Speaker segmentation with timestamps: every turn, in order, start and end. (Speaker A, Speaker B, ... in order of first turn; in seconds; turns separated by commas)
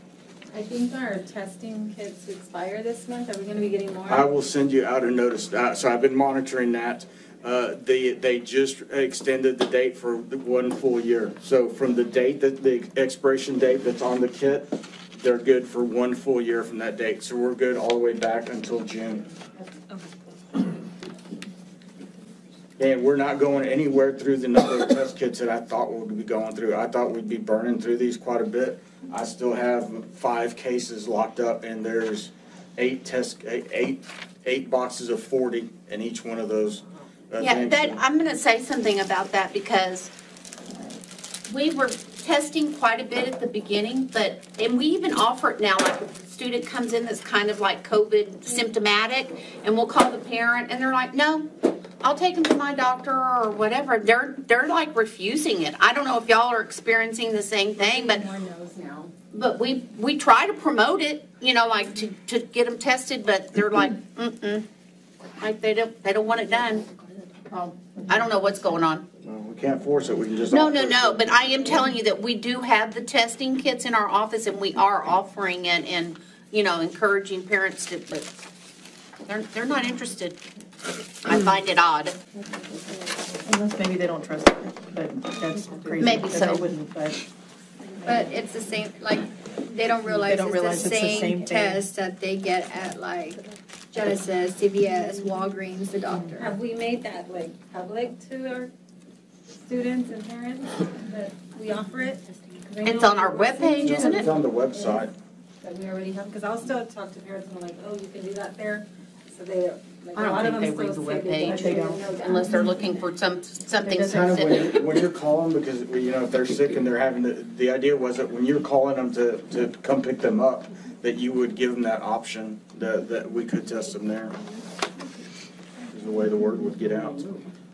Speaker A: 0.5-4.3, Speaker B: 4.1-19.2, Speaker B: 22.8-38.0, Speaker C: 37.4-40.1, Speaker C: 41.5-58.4, Speaker A: 57.8-59.1, Speaker C: 59.3-64.6, Speaker C: 65.4-66.9, Speaker C: 68.1-69.0, Speaker B: 69.2-71.6, Speaker C: 70.5-78.3, Speaker C: 79.3-80.5, Speaker C: 81.2-82.2, Speaker D: 83.4-87.2, Speaker C: 86.0-86.7, Speaker E: 88.0-96.5, Speaker D: 90.1-91.8, Speaker A: 96.4-98.7, Speaker A: 99.6-105.0, Speaker C: 102.8-104.3, Speaker B: 103.8-105.1, Speaker A: 105.6-112.8, Speaker C: 110.1-114.7, Speaker D: 111.5-112.1, Speaker B: 114.0-124.3, Speaker B: 125.9-127.2